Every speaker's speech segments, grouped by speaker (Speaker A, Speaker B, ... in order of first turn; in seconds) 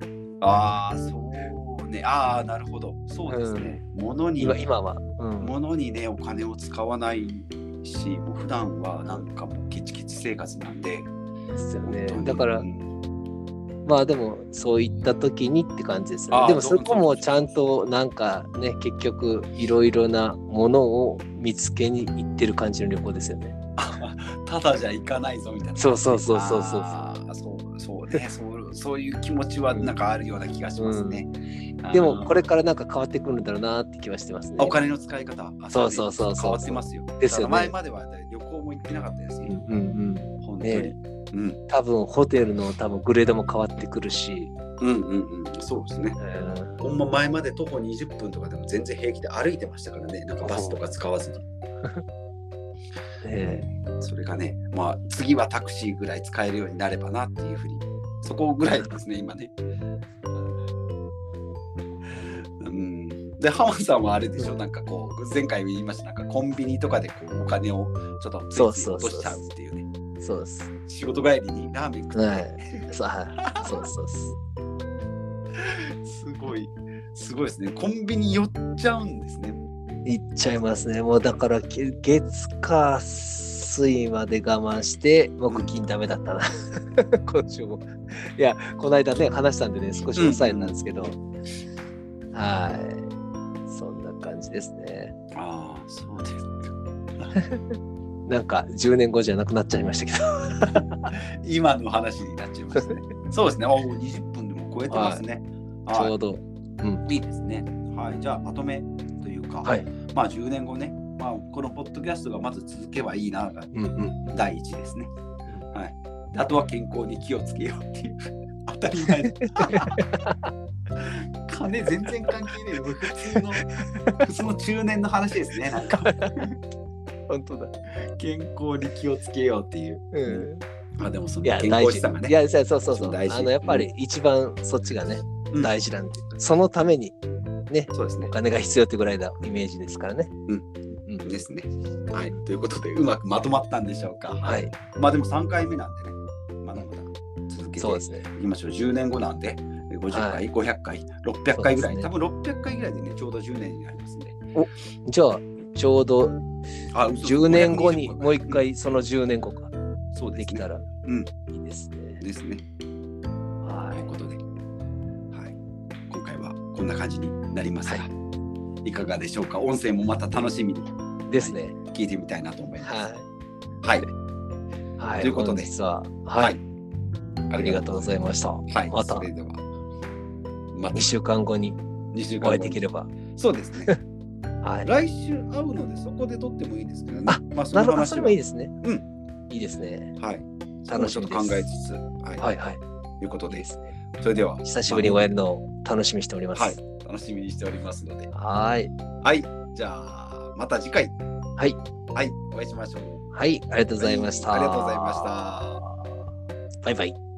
Speaker A: 0.4-4.6, 5.4-11.1, 11.8-12.9, 16.3-17.5, 23.8-31.3, 31.8-32.4, 34.6-39.5, 40.4-41.6, 44.8-46.2, 46.8-51.4, 53.4-59.5, 60.3-60.6, 62.1-69.9, 70.9-73.9, 75.5-79.6, 90.1-90.9, 95.3-97.3, 101.1-106.1, 107.0-113.7, 114.3-115.1, 115.7-120.2, 121.0-123.7, 124.2-126.5, 127.9-132.3, 132.9-133.9, 137.9-138.3, 141.2-154.4, 156.9-158.6, 160.1-161.3, 162.2-162.6, 163.9-164.4, 165.3-165.6, 166.1-168.1, 168.8-172.9, 173.8-174.1, 175.2-175.7, 177.5-178.2, 178.7-179.6, 180.7-181.1, 182.1-182.8, 183.3-183.9, 184.8-189.1, 190.2-192.4, 193.2-195.3, 196.5-198.3, 199.2-201.1, 202.1-203.3, 204.0-205.9
Speaker B: 3.3-3.8, 4.4-5.5, 11.5-12.7, 13.8-23.6, 25.8-27.0, 30.8-31.2, 31.9-34.8, 35.7-37.7, 39.5-40.9, 41.7-44.5, 46.2-46.8, 50.4-50.8, 53.2-53.6, 58.6-59.0, 68.5-69.4, 70.2-70.7, 72.1-74.3, 80.0-91.2, 92.3-93.1, 93.7-95.1, 97.3-101.1, 104.9-105.2, 105.9-107.0, 113.7-114.3, 119.4-120.5, 123.2-124.3, 125.8-126.4, 127.3-127.7, 130.1-130.6, 131.4-137.2, 137.7-140.3, 141.1-141.3, 144.4-144.7, 147.8-148.2, 150.1-150.4, 151.5-152.1, 154.5-156.4, 157.2-159.7, 160.3-160.8, 161.5-162.2, 163.6-164.1, 171.3-171.8, 172.8-173.2, 175.0-176.6, 177.6-179.3, 180.9-181.8, 182.4-183.1, 184.6-184.9, 187.3-188.7, 189.5-190.1, 190.9-191.7, 192.4-192.8, 193.5-193.9, 194.6-196.8, 198.3-198.9, 203.3-205.6, 206.8-207.2